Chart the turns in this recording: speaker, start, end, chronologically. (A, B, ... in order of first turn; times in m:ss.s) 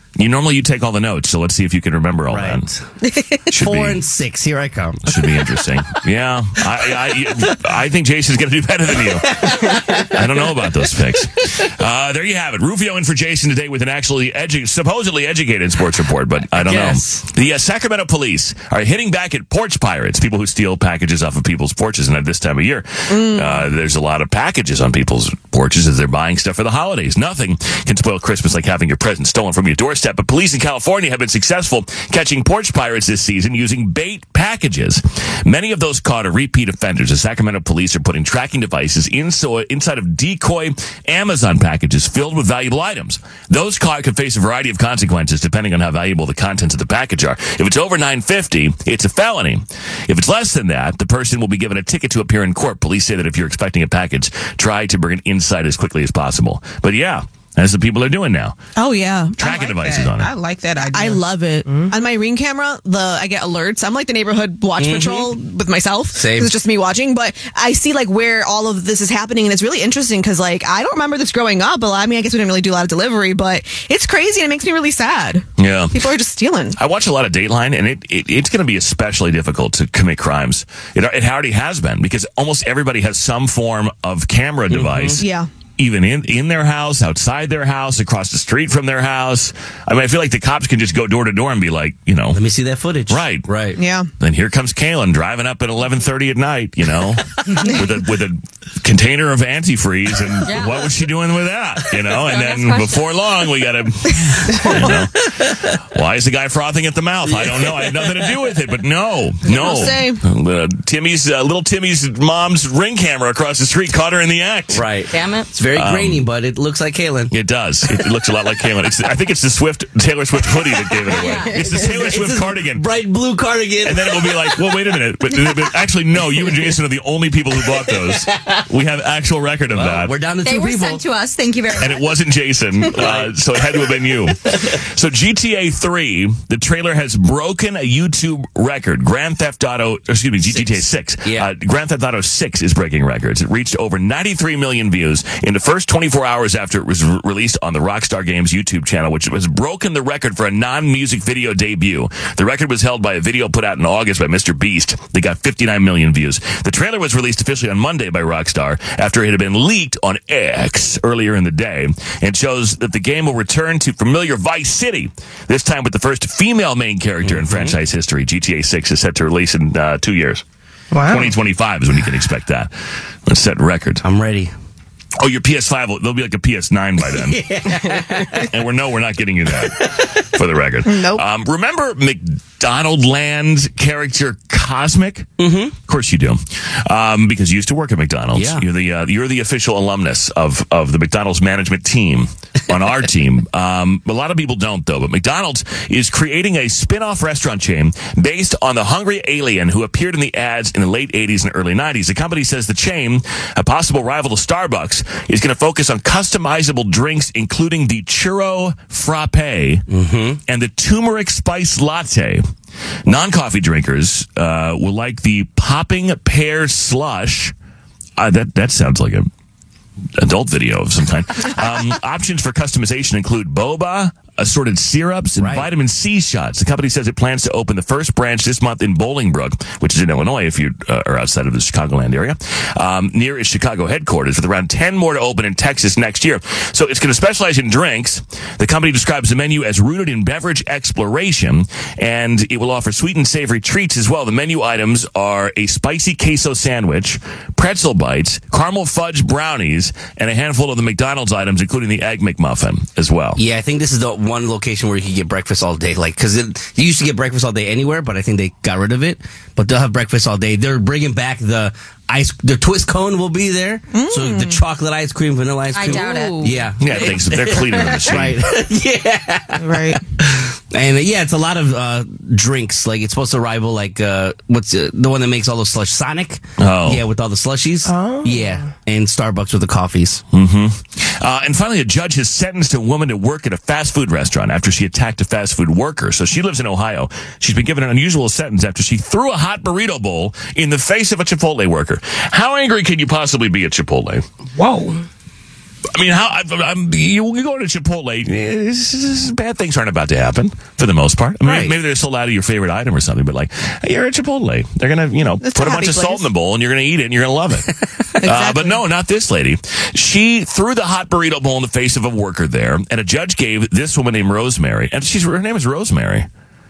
0:00.2-0:02.7 A
0:02.3-0:02.9 B
0:03.5-0:04.0 A
0:03.5-0:05.5 B
0:05.0-0:58.6 A
0:08.9-0:10.6 B
0:16.5-0:17.2 B
0:23.1-0:23.7 C
0:58.8-0:59.5 C
0:59.4-1:00.3 A
0:59.4-1:01.9 D
1:00.9-1:16.8 C
1:04.8-1:05.4 B
1:06.1-1:06.5 B
1:15.6-1:16.0 A
1:16.8-1:25.2 A
1:24.7-1:25.2 B
1:25.2-1:25.5 C
1:25.8-1:32.4 A
1:32.3-1:33.8 B
1:33.1-1:33.5 A
1:33.8-1:34.1 C
1:34.2-1:54.8 A
1:40.4-1:40.9 E
1:42.1-1:43.2 E
1:44.7-1:45.8 B
1:47.2-1:48.4 B
1:49.4-1:50.2 C
1:54.7-1:57.3 B
1:55.1-1:55.5 E
1:55.7-1:56.2 A
1:57.3-2:02.9 A
2:00.8-2:04.8 B
2:01.1-2:01.6 E
2:03.8-2:10.1 A
2:05.4-2:06.8 B
2:07.6-2:08.7 B
2:09.7-2:11.0 B
2:10.4-2:12.1 E
2:11.8-2:50.4 A
2:12.9-2:13.4 B
2:20.4-2:21.5 B
2:47.2-2:47.8 B
2:50.9-2:51.4 D
2:51.0-2:52.7 A
2:53.2-2:54.0 A
2:54.0-2:54.5 B
2:55.2-2:57.4 A
2:57.0-2:58.5 B
2:57.8-2:58.2 D
2:58.4-3:29.8 A
2:59.5-3:00.2 B
3:00.8-3:01.2 C
3:05.4-3:05.8 B
3:08.3-3:08.6 B
3:29.9-3:30.4 B
3:30.5-3:32.4 A
3:33.0-3:37.5 A
3:38.2-3:39.3 A
3:40.2-4:13.4 A
3:45.4-3:45.7 B
4:13.4-4:40.2 B
4:23.9-4:24.6 C
4:25.7-4:26.5 E
4:25.9-4:26.6 D
4:26.8-4:28.4 A
4:29.6-4:30.0 D
4:36.6-4:37.0 A
4:37.8-4:38.7 D
4:40.3-4:54.2 A
4:54.5-4:55.0 D
4:55.9-5:07.7 A
5:01.4-5:01.8 B
5:05.4-5:06.3 C
5:08.2-5:08.8 C
5:08.2-5:16.3 A